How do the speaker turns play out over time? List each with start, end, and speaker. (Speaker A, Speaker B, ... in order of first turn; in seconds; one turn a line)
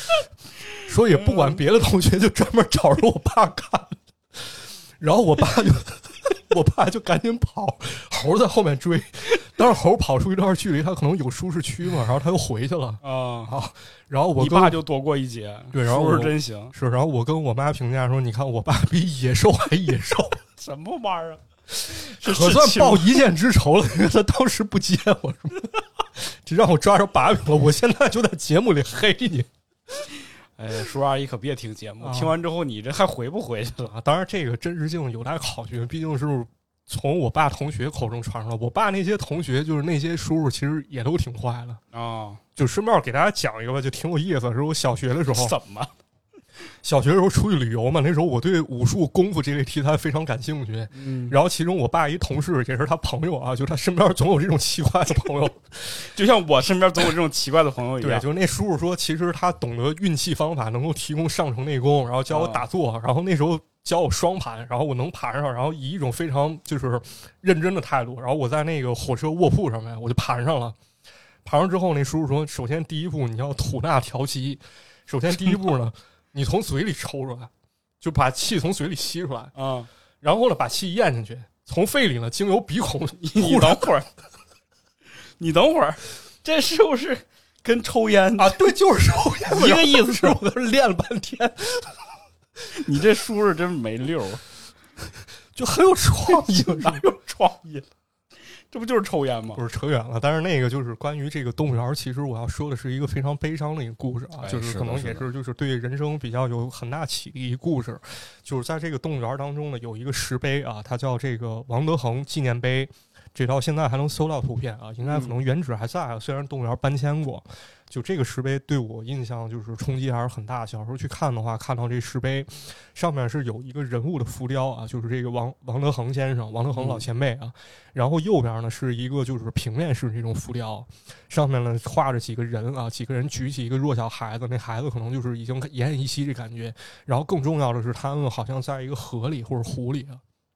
Speaker A: 0.8-14.8
Speaker B: 13.0-13.5
Speaker B: 14.4-16.7
Speaker A: 15.7-20.4
Speaker B: 20.6-23.2
Speaker A: 21.8-29.5
Speaker B: 30.6-33.9
Speaker A: 32.0-32.4
Speaker A: 33.8-41.8
Speaker B: 41.9-42.4
Speaker A: 42.5-45.5
Speaker B: 45.3-45.9
Speaker A: 46.8-56.0
Speaker B: 50.9-51.4
Speaker B: 56.0-58.3
Speaker A: 58.0-70.8
Speaker B: 62.3-62.6
Speaker A: 71.4-79.5
Speaker B: 79.5-79.9
Speaker A: 80.2-83.9
Speaker B: 83.2-84.1
Speaker B: 85.4-88.6
Speaker A: 88.4-92.0
Speaker B: 89.5-90.4
Speaker B: 92.7-94.4
Speaker A: 95.5-97.0
Speaker B: 96.3-97.8
Speaker B: 98.7-99.6
Speaker A: 99.5-140.2
Speaker B: 104.4-105.2
Speaker B: 115.0-115.3
Speaker B: 126.7-127.0